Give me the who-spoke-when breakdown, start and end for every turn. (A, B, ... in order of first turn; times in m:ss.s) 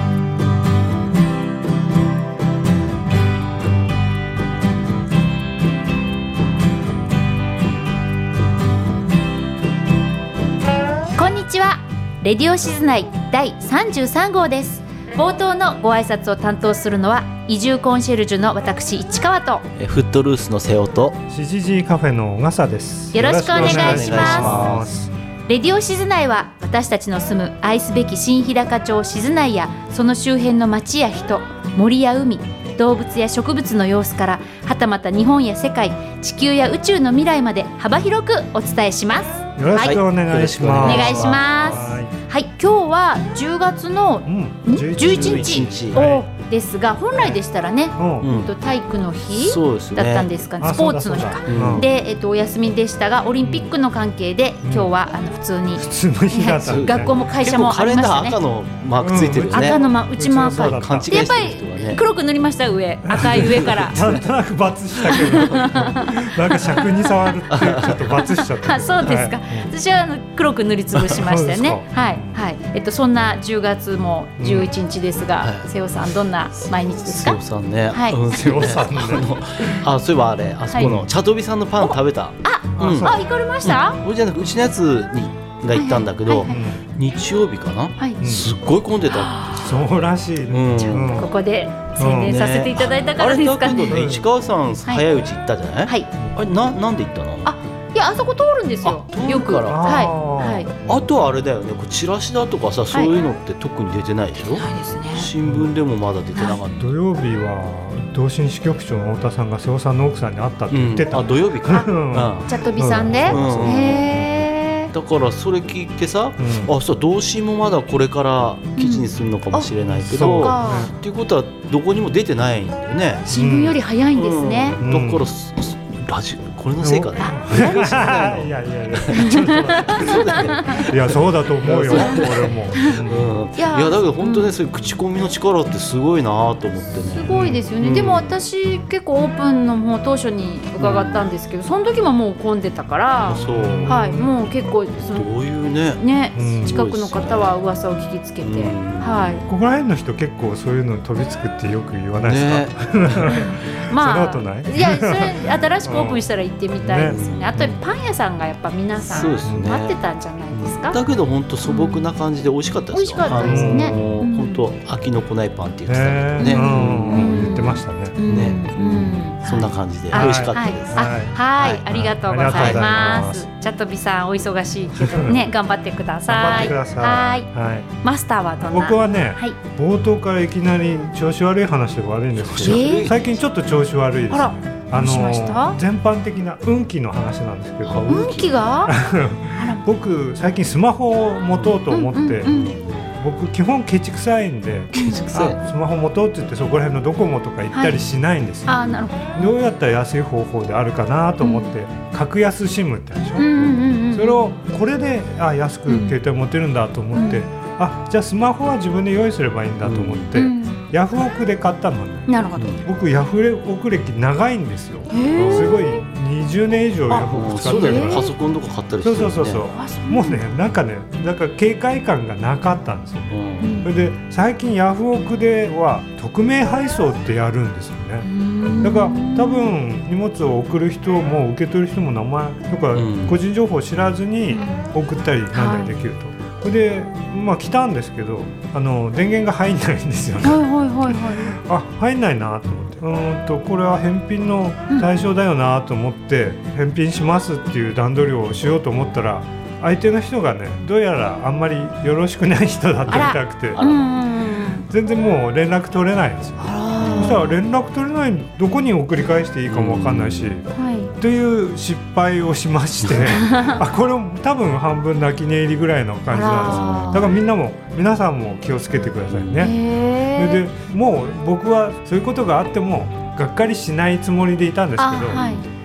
0:11.2-0:19.7 A
0:19.8-0:21.2 B
0:21.3-0:25.1 C
0:23.1-0:24.5 A
0:23.5-0:24.9 B
0:25.5-0:40.0 A
0:39.6-0:42.1 C
0:39.8-0:41.9 B
0:40.8-0:58.4 A
0:44.3-0:46.3 C
0:45.0-0:46.0 B
0:48.0-0:48.3 C
0:48.2-0:48.5 B
0:49.3-0:50.3 B
0:50.6-0:51.9 C
0:51.5-0:51.8 B
0:53.4-0:53.7 C
0:54.6-0:54.9 C
0:55.8-0:57.2 C
0:56.6-1:02.0 B
0:59.0-1:01.3 C
0:59.5-1:04.0 A
1:03.0-1:09.7 C
1:03.2-1:04.2 B
1:05.0-1:07.1 A
1:05.2-1:05.6 B
1:07.5-1:08.0 B
1:07.8-1:17.4 A
1:11.1-1:12.4 C
1:14.4-1:14.7 C
1:15.4-1:15.7 B
1:17.0-1:29.4 B
1:17.9-1:19.8 A
1:18.3-1:19.3 C
1:20.8-1:21.1 C
1:21.8-1:24.0 A
1:22.8-1:23.2 C
1:25.7-1:26.6 A
1:26.5-1:26.8 C
1:28.2-1:28.5 C
1:29.1-1:29.8 A
1:29.5-1:31.3 C
1:30.5-1:31.3 B
1:30.8-1:34.0 A
1:32.0-1:32.4 C
1:32.2-1:37.6 B
1:33.9-1:34.3 C
1:37.4-1:40.7 A
1:38.8-1:39.9 B
1:39.7-1:40.7 C
1:40.9-1:46.9 B
1:42.9-1:43.2 A
1:44.5-1:45.3 A
1:45.4-1:45.7 C
1:46.4-1:46.6 A
1:46.8-1:54.0 C
1:50.7-1:52.5 B
1:52.5-1:54.9 A
1:53.2-1:54.2 B
1:54.9-2:03.3 B
1:56.4-1:56.7 C
1:58.8-2:00.9 A
2:00.0-2:00.9 C
2:03.3-2:04.8 A
2:03.3-2:03.8 C
2:04.1-2:18.4 B
2:04.8-2:05.3 C
2:06.8-2:13.3 C
2:07.2-2:07.8 A
2:09.1-2:10.8 A
2:11.9-2:13.0 A
2:13.6-2:14.5 A
2:16.9-2:25.3 A
2:17.3-2:17.7 C
2:20.8-2:21.3 B
2:23.3-2:24.3 C
2:23.3-2:24.0 B
2:25.1-2:26.0 B
2:26.0-2:29.5 A
2:26.4-2:26.8 C
2:26.6-2:27.5 B
2:28.4-2:29.5 B
2:29.5-2:36.2 C
2:32.2-2:33.3 B
2:33.3-2:41.0 A
2:36.8-2:37.8 C
2:37.0-2:37.6 B
2:39.0-2:40.0 B
2:39.5-2:39.7 C
2:40.5-2:47.6 B
2:41.6-2:42.0 A
2:42.9-2:44.6 A
2:43.3-2:44.2 C
2:45.9-2:48.2 C
2:46.4-2:57.5 A
2:48.3-2:51.1 B
2:50.1-2:53.5 C
2:52.5-2:52.8 B
2:55.1-2:55.4 C
2:56.3-2:57.9 C
2:58.0-2:59.6 A
2:58.7-3:08.3 C
3:02.4-3:03.4 B
3:02.6-3:03.2 A
3:04.3-3:05.8 A
3:07.9-3:08.6 B
3:08.1-3:09.0 A
3:08.8-3:12.5 C
3:09.5-3:09.8 A
3:11.9-3:12.7 A
3:12.5-3:13.1 B
3:13.2-3:32.3 C
3:15.0-3:15.2 A
3:15.0-3:15.6 B
3:17.7-3:18.0 A
3:18.7-3:19.5 A
3:21.4-3:21.7 A
3:23.4-3:24.5 A
3:25.9-3:26.2 A
3:27.1-3:27.5 A
3:29.8-3:30.4 B
3:30.4-3:30.8 A
3:32.3-3:32.8 A
3:32.6-3:32.8 B
3:32.8-3:38.4 C
3:35.1-3:36.0 A
3:35.4-3:35.8 B
3:37.1-3:39.6 B
3:37.7-3:38.3 A
3:39.0-3:48.3 C
3:39.7-3:40.4 A
3:43.3-3:43.8 B
3:43.6-3:43.9 A
3:48.2-3:49.8 A
3:48.8-4:13.8 C
3:52.9-3:53.4 B
3:54.5-3:54.8 A
3:55.5-3:55.9 A
4:00.4-4:01.6 A
4:13.1-4:14.1 B
4:13.1-4:14.9 A
4:14.9-4:20.7 C
4:16.6-4:17.6 A
4:17.0-4:17.4 B
4:19.7-4:20.6 B
4:20.7-4:21.1 A
4:21.2-4:29.8 C
4:23.2-4:23.8 A
4:26.3-4:27.4 A
4:26.6-4:27.3 B
4:29.3-4:29.7 B
4:29.6-4:30.6 A
4:30.4-4:35.6 C
4:35.0-4:35.6 A